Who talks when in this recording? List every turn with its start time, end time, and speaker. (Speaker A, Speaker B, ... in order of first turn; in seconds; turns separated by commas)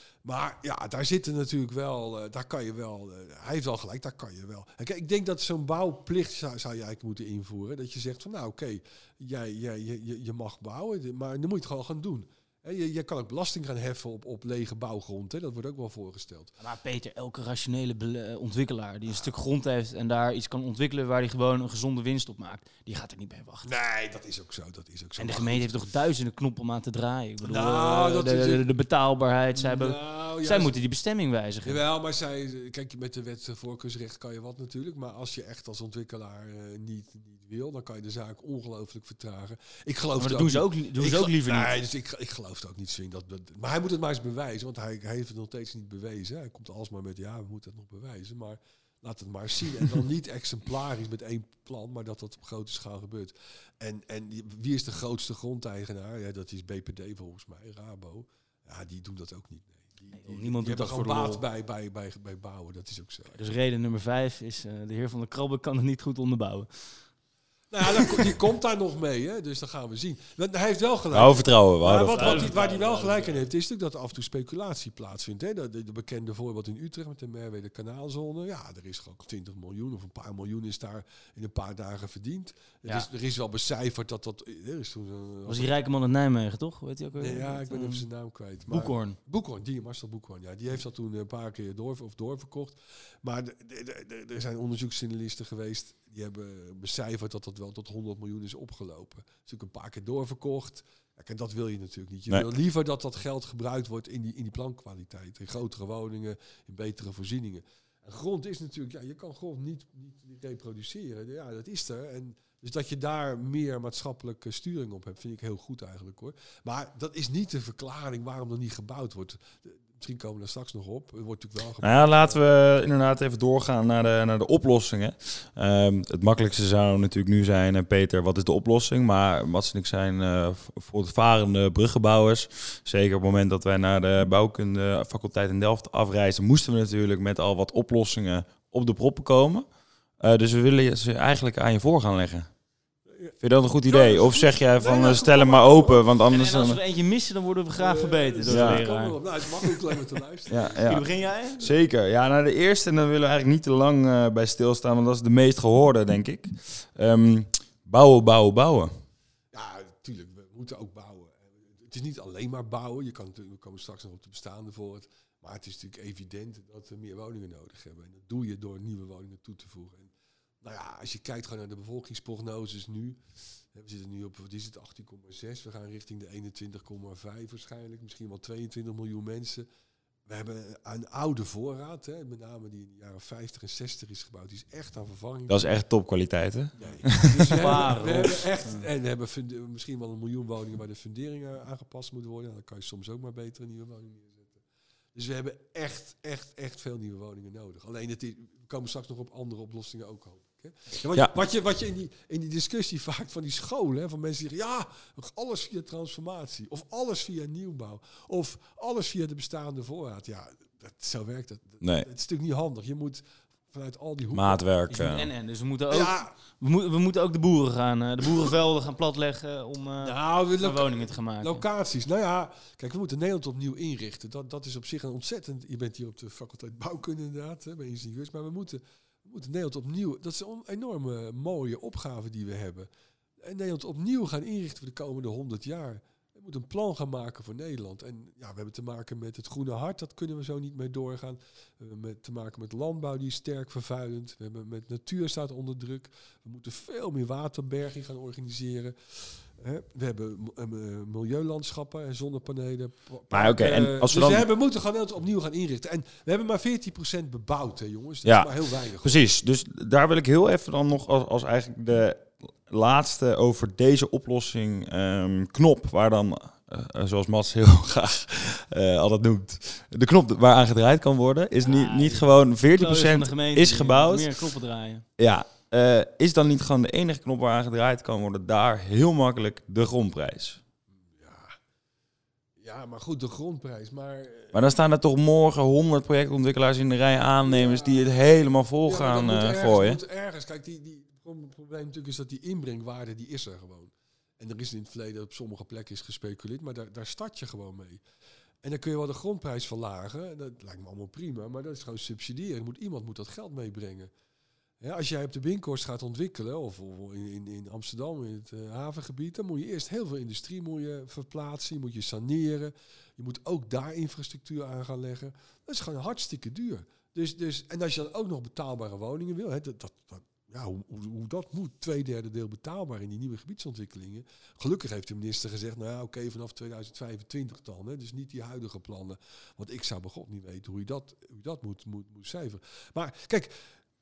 Speaker A: 0.2-16.5, Speaker B: 16.6-23.7, Speaker A: 19.1-19.3, Speaker A: 23.6-25.8, Speaker B: 25.2-31.8, Speaker A: 27.4-28.6, Speaker A: 29.5-30.8, Speaker A: 31.6-63.4, Speaker B: 40.2-41.8, Speaker B: 60.1-61.4, Speaker B: 63.3-67.0, Speaker A: 67.7-85.7, Speaker C: 71.1-72.5, Speaker B: 71.9-73.4, Speaker B: 85.5-88.0, Speaker A: 87.2-122.4, Speaker B: 88.7-89.2, Speaker C: 121.8-139.7, Speaker C: 140.2-142.5, Speaker A: 143.1-143.3, Speaker C: 143.4-146.8, Speaker A: 143.8-146.1, Speaker B: 146.3-149.8, Speaker A: 147.8-151.1, Speaker C: 148.5-148.8, Speaker C: 150.5-151.0, Speaker B: 150.8-151.7, Speaker C: 151.6-159.0, Speaker A: 159.5-179.7, Speaker A: 180.2-185.8, Speaker C: 185.5-188.1, Speaker A: 186.8-194.6, Speaker B: 187.2-188.8, Speaker A: 195.1-214.6, Speaker C: 211.8-212.1, Speaker C: 214.3-215.3, Speaker B: 214.9-221.6, Speaker A: 215.9-216.3, Speaker A: 220.0-232.9, Speaker A: 233.4-259.2, Speaker C: 253.3-254.5, Speaker C: 258.2-274.4, Speaker B: 271.6-275.0, Speaker C: 275.2-280.6, Speaker A: 281.0-281.6, Speaker A: 282.6-284.6, Speaker C: 284.5-290.0, Speaker A: 287.4-288.1, Speaker A: 288.8-298.0, Speaker A: 298.6-304.1, Speaker A: 304.8-333.7